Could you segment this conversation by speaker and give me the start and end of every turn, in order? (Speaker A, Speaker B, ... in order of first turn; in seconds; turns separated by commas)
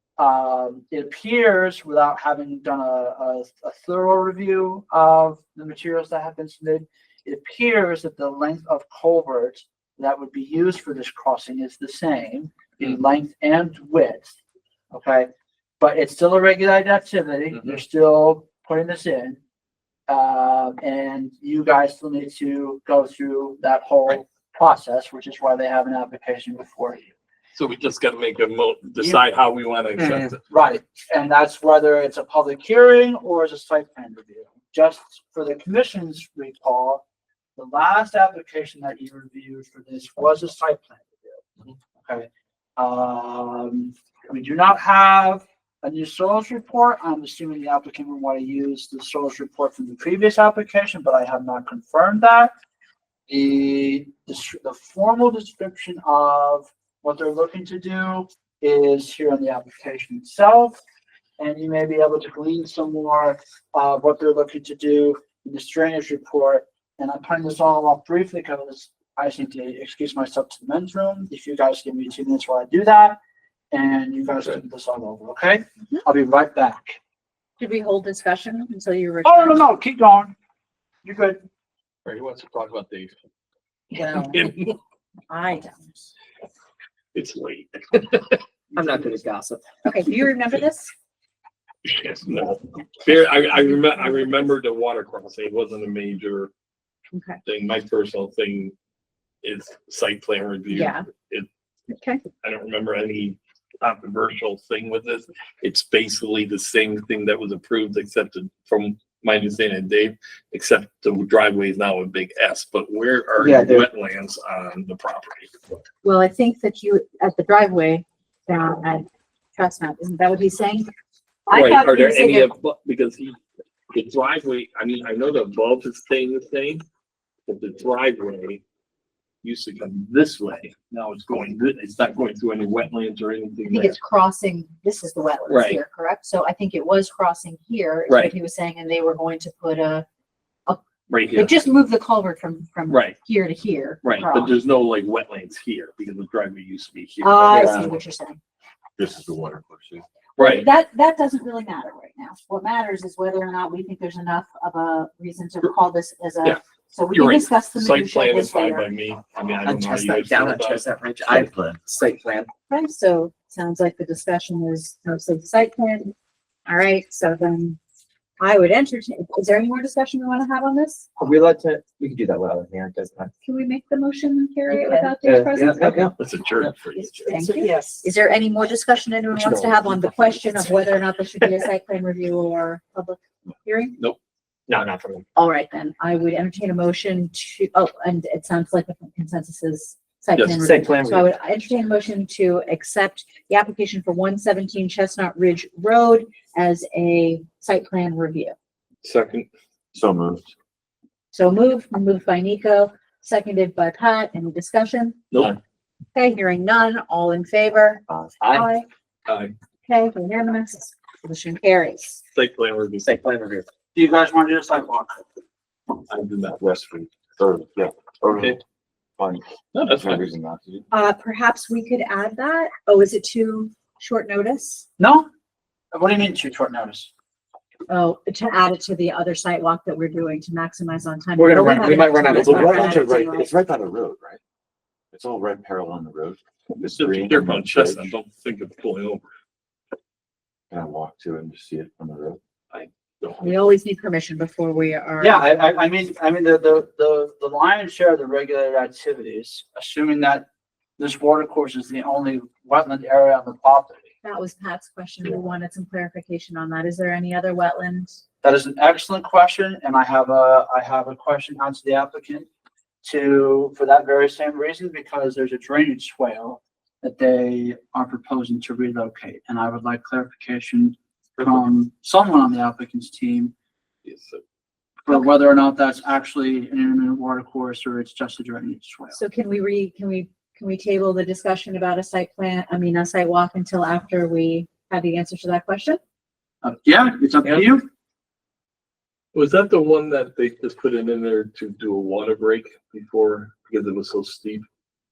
Speaker A: 0.2-14.3, Speaker A: 14.9-19.4, Speaker A: 20.1-27.1, Speaker B: 27.5-30.4, Speaker A: 30.5-37.0, Speaker A: 37.6-41.4, Speaker A: 42.0-52.5, Speaker A: 53.3-60.8, Speaker A: 61.4-73.2, Speaker A: 73.7-77.0, Speaker C: 77.6-79.6, Speaker A: 79.2-80.3, Speaker A: 81.0-81.4, Speaker B: 82.0-83.1, Speaker C: 83.9-84.7, Speaker B: 84.2-84.7, Speaker C: 85.3-86.0, Speaker B: 87.1-88.4, Speaker D: 88.7-89.6, Speaker C: 89.8-90.9, Speaker B: 91.8-96.5, Speaker C: 97.1-97.4, Speaker B: 97.4-98.7, Speaker B: 99.4-101.5, Speaker C: 100.7-101.0, Speaker C: 101.9-102.2, Speaker B: 102.4-115.5, Speaker D: 113.4-113.9, Speaker C: 116.0-120.9, Speaker C: 121.5-122.5, Speaker B: 121.5-123.4, Speaker B: 123.9-126.8, Speaker B: 127.5-128.6, Speaker B: 129.4-134.0, Speaker C: 133.7-140.1, Speaker B: 135.5-135.8, Speaker B: 141.1-141.5, Speaker C: 141.3-144.6, Speaker B: 142.9-143.2, Speaker B: 144.0-147.9, Speaker C: 147.2-148.4, Speaker D: 147.5-147.8, Speaker E: 149.0-150.1, Speaker B: 150.4-150.7, Speaker C: 150.4-158.9, Speaker B: 157.1-161.4, Speaker D: 159.6-162.5, Speaker C: 162.7-166.1, Speaker C: 166.7-167.8, Speaker C: 168.4-171.1, Speaker D: 171.2-173.3, Speaker C: 173.4-175.9, Speaker D: 174.7-176.1, Speaker B: 175.8-177.3, Speaker C: 176.9-184.0, Speaker D: 177.4-178.0, Speaker D: 179.3-180.1, Speaker D: 184.7-185.2, Speaker C: 185.3-198.5, Speaker B: 190.3-190.6, Speaker D: 190.6-191.2, Speaker B: 199.0-199.5, Speaker E: 199.9-200.5, Speaker C: 201.3-205.2, Speaker C: 206.1-208.8, Speaker E: 208.1-208.3, Speaker D: 208.4-208.7, Speaker B: 209.2-209.5, Speaker C: 209.8-212.2, Speaker B: 212.3-213.1, Speaker D: 213.0-213.7, Speaker A: 213.9-215.2, Speaker B: 216.1-216.6, Speaker E: 216.6-218.6, Speaker E: 219.2-220.9, Speaker B: 219.7-220.3, Speaker C: 220.9-224.9, Speaker A: 225.0-225.2, Speaker A: 225.9-227.1, Speaker C: 227.9-233.5, Speaker D: 231.3-233.0, Speaker E: 232.2-234.4, Speaker E: 235.1-238.1, Speaker B: 236.7-239.2, Speaker E: 240.7-242.4, Speaker B: 242.7-243.5, Speaker C: 243.4-245.5, Speaker A: 245.2-250.4, Speaker A: 251.0-254.1, Speaker C: 254.2-258.2, Speaker A: 258.4-262.5, Speaker A: 263.0-273.5, Speaker B: 274.0-274.4, Speaker A: 275.0-279.2, Speaker C: 279.1-286.0, Speaker A: 286.6-287.9, Speaker B: 289.3-294.6